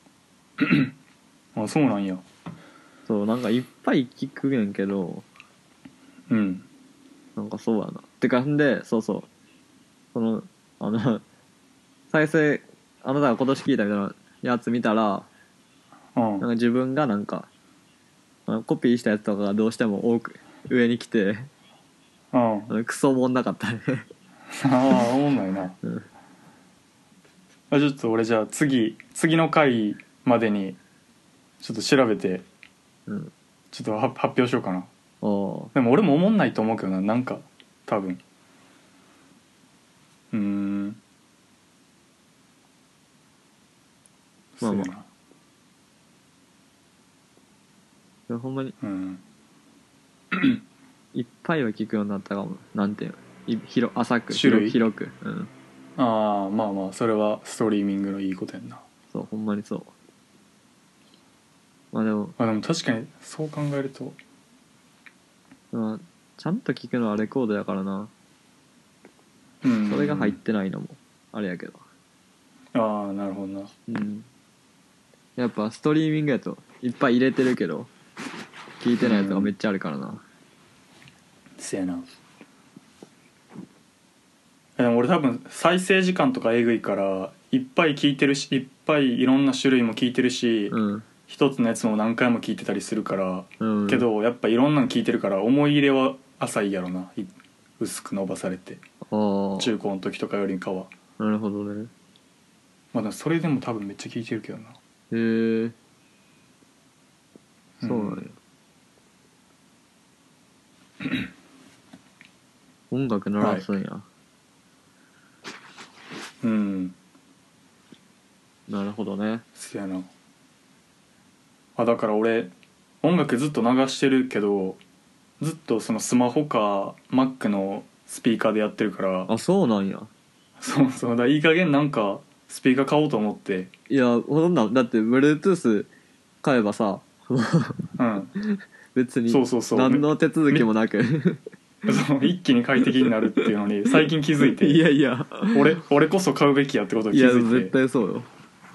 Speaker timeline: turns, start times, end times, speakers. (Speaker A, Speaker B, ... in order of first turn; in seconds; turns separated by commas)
Speaker A: 0.6-0.9, Speaker A: 1.5-2.2, Speaker B: 3.1-5.2, Speaker A: 6.3-6.7, Speaker B: 7.3-9.3, Speaker B: 10.1-11.2, Speaker B: 12.1-15.3, Speaker A: 16.1-16.4, Speaker B: 16.4-17.5, Speaker B: 18.5-21.5, Speaker A: 22.3-22.7, Speaker B: 22.7-24.1, Speaker A: 24.5-25.8, Speaker A: 27.7-30.8, Speaker A: 31.6-32.5, Speaker B: 33.1-33.3, Speaker A: 33.7-34.9, Speaker B: 35.2-35.7, Speaker A: 35.7-38.2, Speaker A: 40.3-41.0, Speaker A: 44.6-45.1, Speaker B: 44.6-44.9, Speaker B: 48.3-48.7, Speaker A: 48.8-49.2, Speaker A: 50.3-50.6, Speaker B: 51.1-55.5, Speaker A: 54.3-54.8, Speaker A: 56.0-58.8, Speaker B: 59.1-59.9, Speaker B: 61.9-62.3, Speaker A: 62.4-64.2, Speaker B: 65.7-68.1, Speaker A: 69.6-70.4, Speaker B: 69.9-71.8, Speaker A: 72.7-73.7, Speaker B: 73.9-74.3, Speaker B: 75.4-77.9, Speaker B: 78.8-80.2, Speaker A: 79.0-79.5, Speaker A: 81.6-82.0, Speaker A: 84.8-90.7, Speaker B: 90.7-91.0, Speaker A: 91.3-98.8, Speaker B: 93.6-94.0, Speaker B: 99.1-99.7, Speaker A: 99.6-100.9, Speaker B: 101.2-101.9, Speaker A: 102.9-104.8, Speaker B: 105.1-105.7, Speaker A: 107.8-108.2, Speaker B: 107.8-108.3, Speaker B: 112.9-114.0, Speaker A: 113.4-113.7, Speaker A: 116.4-117.0, Speaker B: 118.7-119.4, Speaker A: 119.5-120.1, Speaker A: 121.8-124.8, Speaker A: 125.4-129.3, Speaker B: 129.3-130.1, Speaker A: 130.6-133.7, Speaker B: 133.9-135.9, Speaker B: 136.4-141.4, Speaker A: 138.0-138.3, Speaker A: 139.3-140.7, Speaker A: 141.8-144.8, Speaker B: 143.0-145.7, Speaker A: 145.5-147.7, Speaker B: 147.1-148.3